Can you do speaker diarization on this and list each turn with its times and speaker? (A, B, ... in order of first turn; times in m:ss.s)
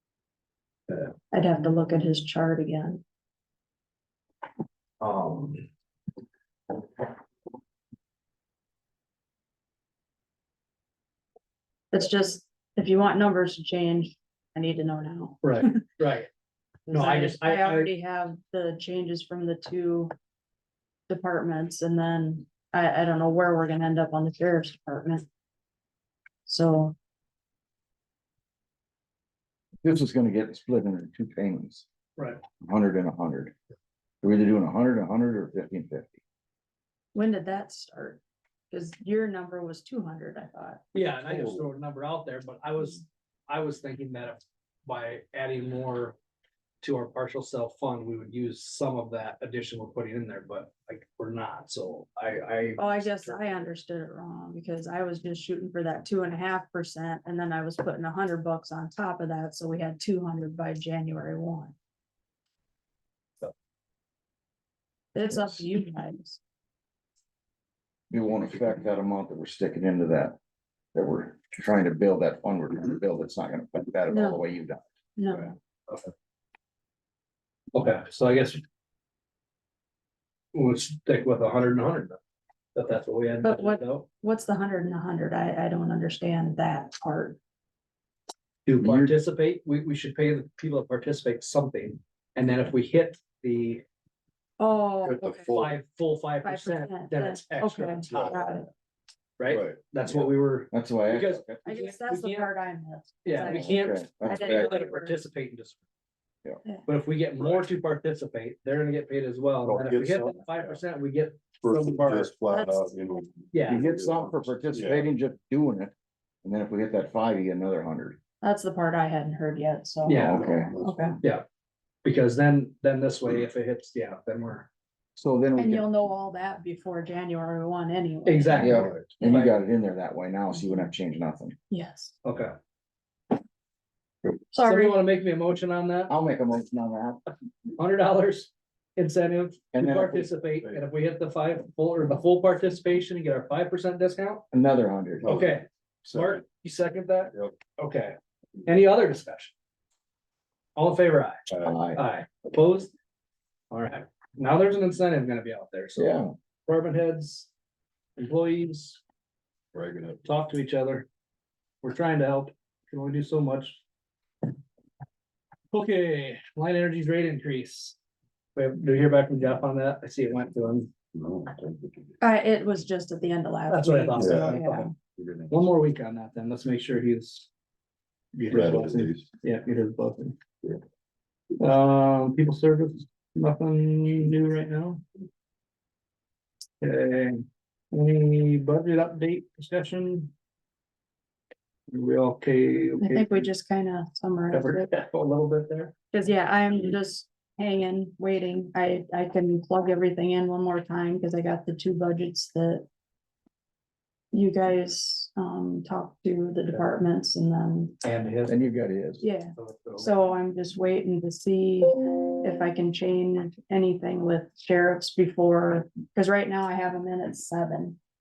0:01.3-0:03.0 A
0:05.0-0:05.6 B
0:11.9-0:15.8 A
0:15.4-0:16.3 B
0:16.9-0:20.1 A
0:16.9-0:17.9 B
0:21.1-0:25.3 A
0:26.5-0:27.0 A
0:29.8-0:31.9 C
0:32.2-0:32.4 B
0:32.6-0:33.5 C
0:34.2-0:36.1 C
0:37.1-0:40.8 A
0:40.9-0:46.2 B
0:46.8-0:53.7 B
0:52.8-1:01.8 A
1:05.2-1:06.4 A
1:08.1-1:10.4 C
1:11.0-1:14.8 C
1:14.1-1:14.4 A
1:15.2-1:15.5 A
1:15.4-1:16.1 B
1:17.7-1:18.6 B
1:20.5-1:22.2 B
1:22.8-1:24.1 B
1:23.4-1:27.4 A
1:28.7-1:33.8 B
1:28.8-1:29.2 C
1:34.6-1:35.5 A
1:35.0-1:35.8 D
1:35.5-1:38.6 B
1:36.4-1:38.7 A
1:39.4-1:42.5 B
1:39.4-1:39.8 D
1:40.7-1:41.6 C
1:41.7-1:45.2 A
1:43.2-1:45.9 B
1:43.4-1:44.8 C
1:46.9-1:52.3 B
1:49.6-1:50.8 D
1:51.6-1:55.1 D
1:52.5-1:53.2 A
1:53.5-1:53.8 B
1:53.7-1:55.9 C
1:56.4-1:58.2 C
1:58.4-2:01.2 A
2:00.1-2:00.4 B
2:00.1-2:00.7 C
2:00.2-2:01.2 D
2:01.2-2:01.5 B
2:02.0-2:04.7 B
2:05.2-2:05.9 C
2:05.6-2:08.9 A
2:08.2-2:09.6 B
2:08.6-2:11.6 C
2:08.7-2:09.1 D
2:11.7-2:12.2 A
2:12.2-2:12.5 B
2:14.5-2:15.0 A
2:14.6-2:16.1 B
2:16.1-2:17.2 C
2:17.8-2:24.4 B
2:19.7-2:20.3 C
2:24.5-2:25.3 C
2:25.2-2:26.4 D
2:25.3-2:29.5 B
2:30.8-2:31.4 B
2:31.6-2:32.0 C
2:31.9-2:32.9 B
2:33.7-2:37.5 B
2:36.0-2:36.3 C
2:38.2-2:39.0 B
2:39.7-2:40.2 D
2:40.2-2:41.1 B
2:41.8-2:43.8 B
2:45.7-2:48.0 B
2:48.6-2:50.9 B
2:51.1-2:52.2 D
2:52.2-2:55.0 A
2:53.7-2:54.9 B
2:54.2-2:55.7 D
2:55.5-2:57.5 B
2:58.3-3:00.4 B
2:58.5-2:59.3 D
3:01.6-3:05.0 B
3:06.8-3:10.3 B
3:11.9-3:13.5 B
3:13.0-3:14.9 A
3:14.5-3:15.9 B
3:16.1-3:22.8 A
3:24.3-3:28.0 A
3:28.0-3:28.6 B
3:28.5-3:29.2 C
3:29.2-3:38.0 A
3:29.6-3:30.2 B